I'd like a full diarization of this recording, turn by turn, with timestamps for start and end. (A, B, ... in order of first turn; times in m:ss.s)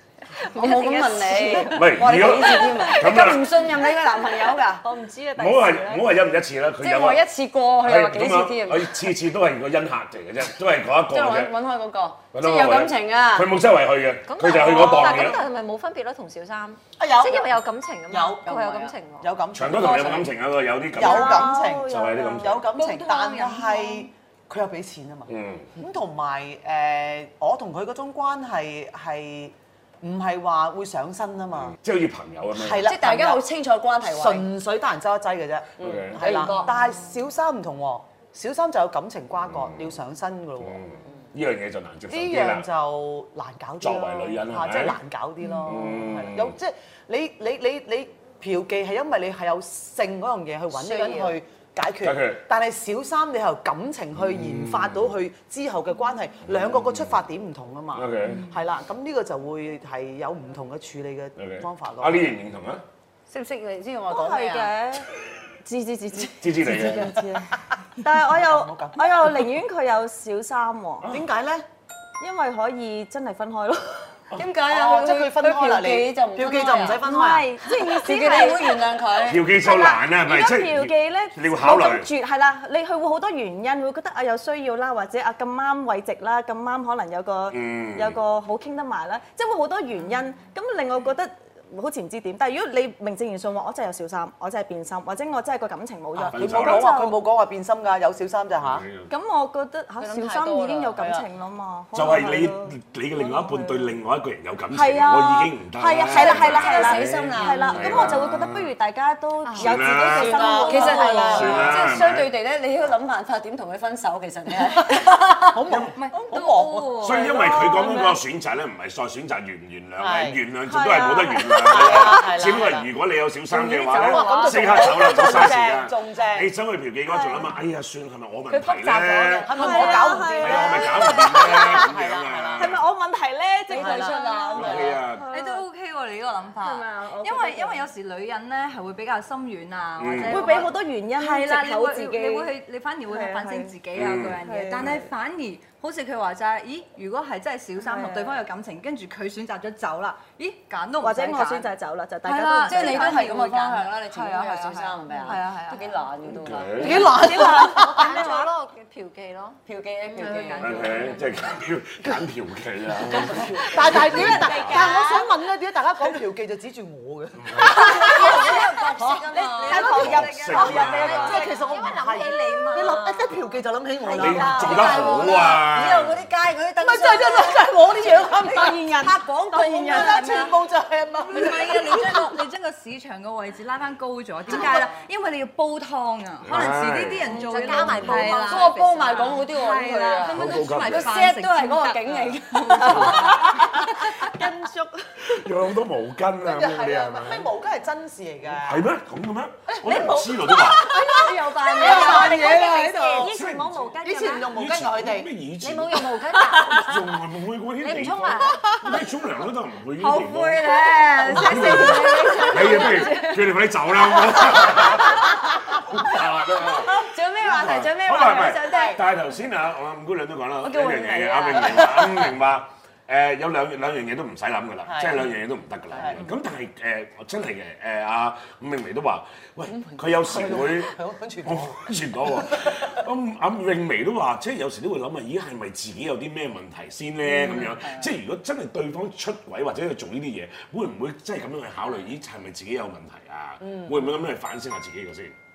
0:00.3-0:03.0 A
0:00.4-0:04.8 B
0:01.6-0:03.6 C
0:04.9-0:06.1 D
0:05.3-0:07.2 C
0:06.8-0:09.1 B
0:07.8-0:11.6 C
0:11.1-0:13.5 B
0:12.3-0:15.4 C
0:14.3-0:19.3 A
0:14.7-0:15.3 E
0:17.0-0:20.3 E
0:18.6-0:18.9 B
0:19.5-0:22.7 C
0:20.9-0:31.8 E
0:21.0-0:22.7 D
0:22.7-0:24.1 F
0:25.3-0:25.7 C
0:31.7-0:32.9 C
0:32.5-0:33.4 E
0:32.8-0:34.5 B
0:34.0-0:40.8 E
0:35.8-0:36.8 B
0:35.8-0:36.2 C
0:39.4-0:40.0 C
0:40.6-0:42.7 C
0:42.1-1:02.3 E
0:43.8-0:45.0 C
0:45.6-0:46.6 C
0:50.7-0:51.4 B
0:52.0-0:52.4 C
0:54.1-0:55.2 C
0:56.5-0:57.1 C
0:57.9-0:58.4 C
0:58.2-0:58.5 F
1:01.4-1:02.8 C
1:03.3-1:04.8 B
1:04.1-1:05.1 D
1:05.6-1:11.1 D
1:06.4-1:07.2 C
1:06.6-1:07.2 E
1:08.1-1:09.5 E
1:11.0-1:11.3 C
1:11.1-1:11.6 E
1:12.2-1:14.2 D
1:14.3-1:17.0 B
1:14.6-1:17.5 E
1:17.0-1:18.8 D
1:17.6-1:19.5 B
1:19.2-1:22.1 C
1:19.5-1:37.2 D
1:27.5-1:28.2 C
1:36.2-1:38.9 E
1:36.3-1:36.9 C
1:38.6-1:39.1 C
1:39.1-1:43.9 D
1:40.0-1:41.3 B
1:41.9-1:48.7 C
1:44.7-1:51.7 D
1:46.1-1:48.1 B
1:49.4-1:49.8 F
1:49.6-1:50.6 C
1:50.1-1:51.8 E
1:50.2-1:55.6 B
1:50.7-1:51.3 F
1:51.3-1:52.3 C
1:54.9-1:58.0 E
1:55.9-1:58.1 F
1:57.0-2:12.8 C
1:57.3-1:58.0 D
2:00.0-2:00.4 E
2:00.6-2:02.1 D
2:01.5-2:02.9 E
2:03.5-2:06.5 E
2:03.8-2:05.5 D
2:07.2-2:07.5 D
2:08.5-2:12.7 E
2:09.4-2:11.9 D
2:09.6-2:10.0 F
2:12.5-2:15.6 D
2:13.7-2:15.0 B
2:13.7-2:14.9 E
2:14.6-2:15.3 C
2:15.3-2:31.7 F
2:16.5-2:17.9 D
2:20.0-2:20.6 C
2:20.3-2:22.5 D
2:23.1-2:25.1 D
2:23.9-2:24.9 C
2:27.8-2:28.4 D
2:31.0-2:33.3 D
2:32.2-2:36.0 F
2:32.6-2:37.2 B
2:36.3-2:37.1 C
2:36.8-2:38.2 E
2:37.2-2:38.5 D
2:37.8-2:39.6 A
2:39.6-2:41.0 B
2:40.2-2:41.6 F
2:40.5-2:41.0 D
2:40.6-2:44.9 C
2:43.1-2:49.8 E
2:43.9-2:45.2 D
2:44.1-2:45.2 A
2:47.4-2:47.9 C
2:47.8-2:50.2 B
2:47.8-2:48.6 D
2:49.3-2:51.8 D
2:49.6-2:51.5 F
2:49.9-2:51.5 C
2:50.6-2:55.6 E
2:51.3-2:53.3 A
2:54.0-2:55.3 A
2:54.1-2:56.3 C
2:54.2-2:54.8 D
2:54.5-3:00.5 B
2:56.8-2:59.0 E
2:58.4-3:00.2 D
2:58.5-2:58.8 F
2:59.5-3:00.5 F
2:59.8-3:02.3 E
3:01.2-3:14.3 F
3:04.5-3:04.7 E
3:04.5-3:04.9 D
3:06.4-3:08.0 C
3:07.2-3:09.4 A
3:08.0-3:13.6 B
3:10.2-3:11.2 C
3:12.9-3:13.4 C
3:12.9-3:15.4 D
3:15.2-3:17.5 C
3:16.4-3:18.9 E
3:18.4-3:20.9 C
3:19.7-3:20.1 E
3:20.0-3:24.5 D
3:20.9-3:23.3 E
3:21.5-3:23.3 A
3:21.8-3:22.5 B
3:23.3-3:23.9 C
3:24.0-3:25.3 E
3:24.5-4:05.4 C
3:25.6-3:27.0 A
3:27.8-3:28.7 A
3:30.0-3:30.3 F
3:30.0-3:33.4 D
3:30.9-3:32.8 F
3:32.3-3:32.8 A
3:36.7-3:39.0 B
3:38.4-3:39.0 E
3:40.6-3:42.1 B
3:41.3-3:42.1 E
3:44.8-3:45.3 E
3:45.9-3:46.2 E
3:50.1-3:53.0 E
3:57.3-3:58.1 B